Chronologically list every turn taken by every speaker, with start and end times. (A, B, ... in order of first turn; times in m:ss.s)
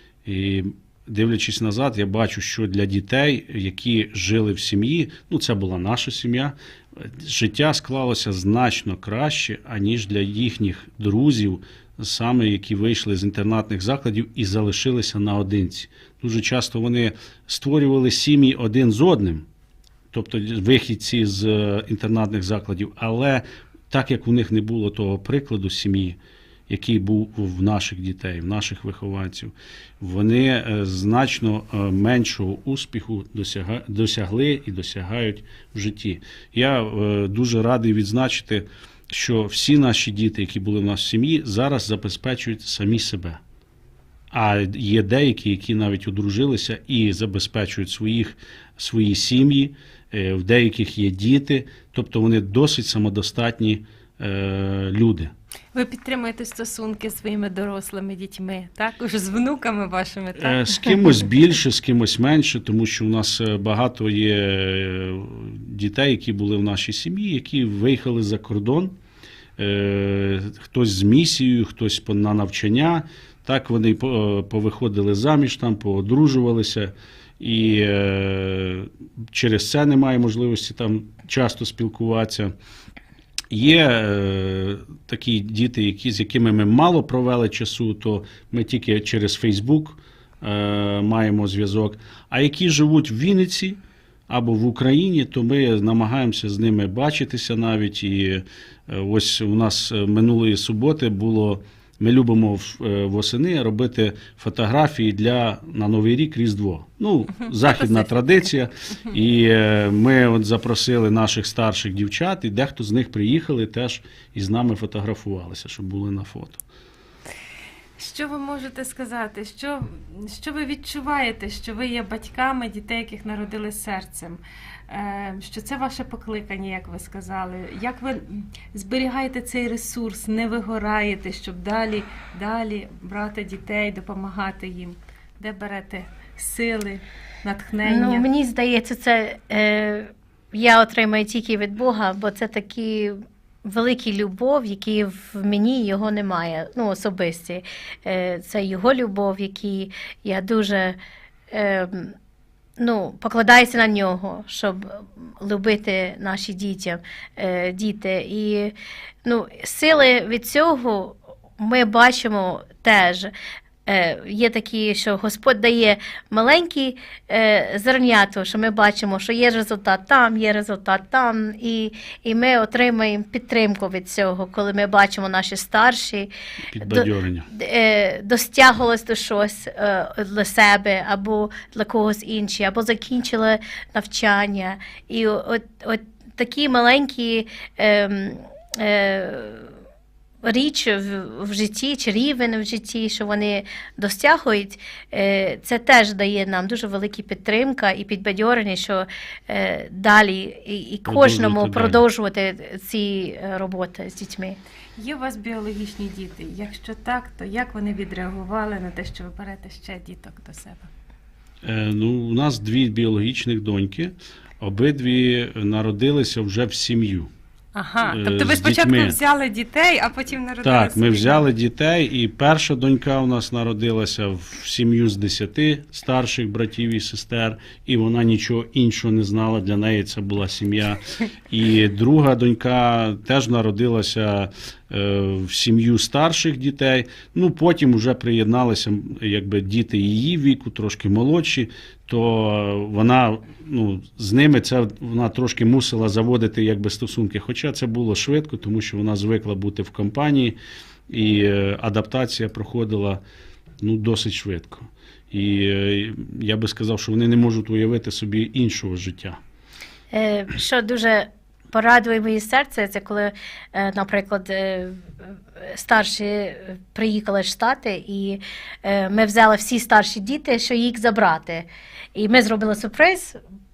0:00.3-0:19.5 A
0:20.1-0:26.2 A
0:26.7-0:43.4 A
0:44.3-0:55.3 A
0:55.7-1:00.6 B
1:00.4-1:09.0 A
1:09.6-1:22.5 A
1:23.5-1:56.6 A
1:58.0-2:18.3 B
2:17.8-2:31.0 C
2:31.5-2:32.1 C
2:32.8-2:43.3 C
2:43.9-3:09.7 C
2:56.7-2:57.5 A
3:10.4-3:24.6 C
3:21.1-3:22.0 A
3:25.0-3:30.9 B
3:31.6-3:37.3 A
3:37.8-3:41.5 B
3:38.1-3:39.2 A
3:40.6-4:10.6 A
4:11.1-4:13.2 A
4:13.8-4:19.4 A
4:20.1-4:33.4 C